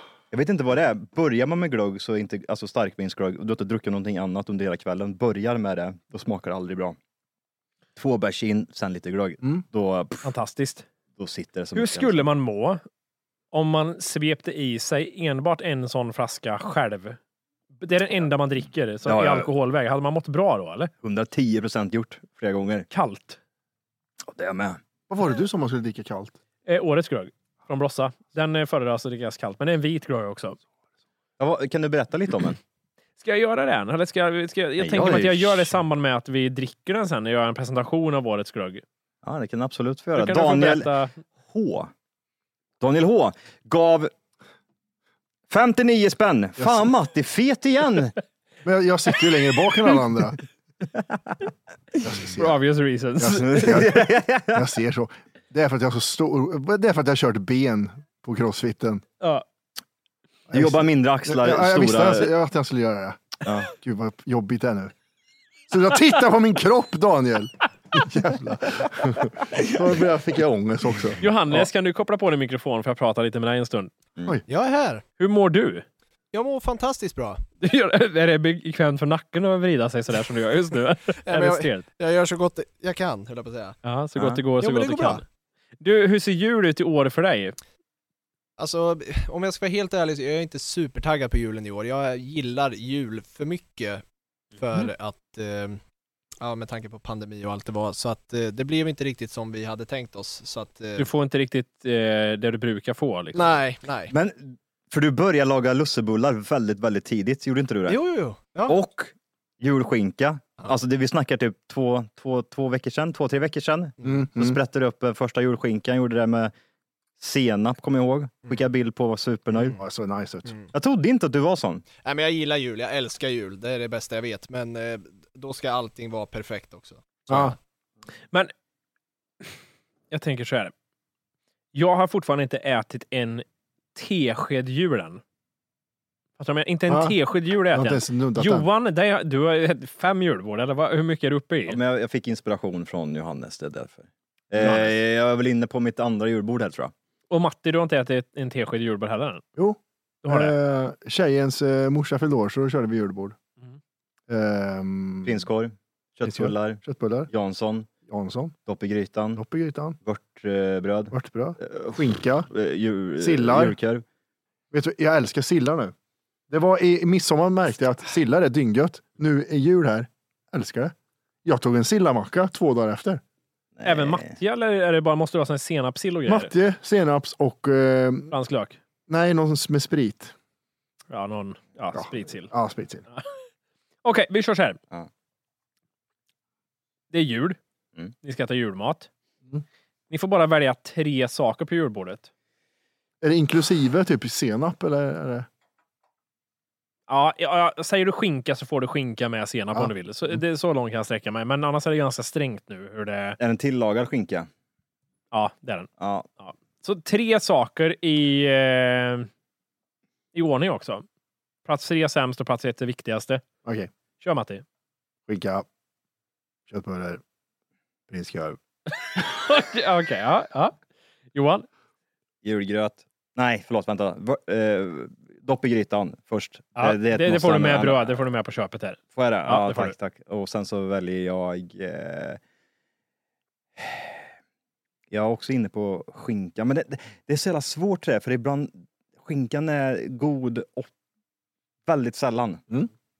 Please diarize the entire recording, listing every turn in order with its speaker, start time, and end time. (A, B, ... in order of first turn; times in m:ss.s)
0:00.3-0:07.0 A
0:08.0-0:10.2 A
0:10.2-0:10.8 B
0:11.2-0:12.3 A
0:11.7-0:12.8 B
0:13.5-0:17.2 B
0:17.8-0:20.9 B
0:19.0-0:19.5 A
0:21.0-0:22.9 A
0:22.9-0:23.4 B
0:24.3-0:24.8 A
0:25.1-0:26.4 C
0:26.6-0:30.6 B
0:31.4-0:32.6 A
0:33.2-0:38.8 B
0:34.8-0:35.7 A
0:39.2-0:40.9 A
0:40.1-0:41.2 B
0:41.5-0:41.9 A
0:42.8-0:44.1 A
0:45.5-0:48.2 A
0:46.6-0:46.8 C
0:48.6-0:50.4 C
0:52.0-0:52.6 C
0:52.4-0:53.8 B
0:53.2-0:59.0 C
0:53.4-0:54.7 A
1:00.5-1:04.9 C
1:00.5-1:02.3 A
1:03.4-1:03.7 A
1:05.7-1:11.6 C
1:11.2-1:13.9 B
1:14.5-1:15.0 D
1:15.2-1:15.8 B
1:16.3-1:17.4 D
1:17.6-1:21.8 B
1:21.2-1:23.8 D
1:23.8-1:25.2 B
1:24.6-1:25.2 D
1:25.8-1:27.6 B
1:28.6-1:34.0 D
1:34.5-1:35.8 D
1:36.4-1:41.1 D
1:41.0-1:43.4 B
1:43.3-1:44.1 D
1:44.1-1:48.0 A
1:47.9-1:48.8 D
1:48.6-1:56.5 A
1:54.0-1:54.6 C
1:57.2-1:59.8 A
1:59.7-2:00.5 C
2:00.7-2:01.8 A
2:02.0-2:07.6 D
2:07.3-2:07.5 C
2:10.1-2:10.7 B
2:11.7-2:15.2 B
2:16.4-2:21.8 B
2:16.9-2:17.2 C
2:17.7-2:18.7 C
2:21.6-2:26.9 A
2:24.6-2:24.9 B
2:27.3-2:29.4 B
2:29.6-2:33.4 C
2:30.2-2:30.5 B
2:34.3-2:35.4 C
2:35.2-2:37.9 A
2:36.2-2:37.3 C
2:38.1-2:38.5 C
2:38.7-2:39.4 A
2:39.3-2:40.0 C
2:40.0-2:44.0 A
2:41.1-2:42.5 C
2:43.2-2:43.8 C
2:44.7-2:45.9 C
2:46.5-2:50.9 C
2:51.4-2:53.2 C
2:53.8-2:54.4 A
2:53.8-2:56.5 B
2:56.3-2:58.3 C
2:58.3-2:58.8 B
2:59.1-3:00.3 C
3:01.1-3:02.5 B
3:01.9-3:03.0 C
3:04.0-3:04.8 B
3:07.1-3:07.6 B
3:08.2-3:09.1 B
3:10.1-3:12.3 B
3:13.2-3:15.5 C
3:17.1-3:23.4 B
3:23.4-3:24.5 A
3:25.3-3:25.9 B
3:26.0-3:26.3 A
3:26.4-3:29.3 B
3:30.3-3:31.0 B
3:31.6-3:33.4 B
3:33.6-3:33.9 C
3:34.2-3:34.6 B
3:35.3-3:35.6 C
3:36.7-3:37.2 C
3:38.1-3:38.6 C
3:39.0-3:40.8 B
3:41.3-3:41.7 B
3:42.4-3:48.2 A
3:46.8-3:49.9 B
3:49.2-3:52.4 A
3:53.8-3:54.2 A
3:55.1-4:00.9 A
4:01.8-4:02.6 A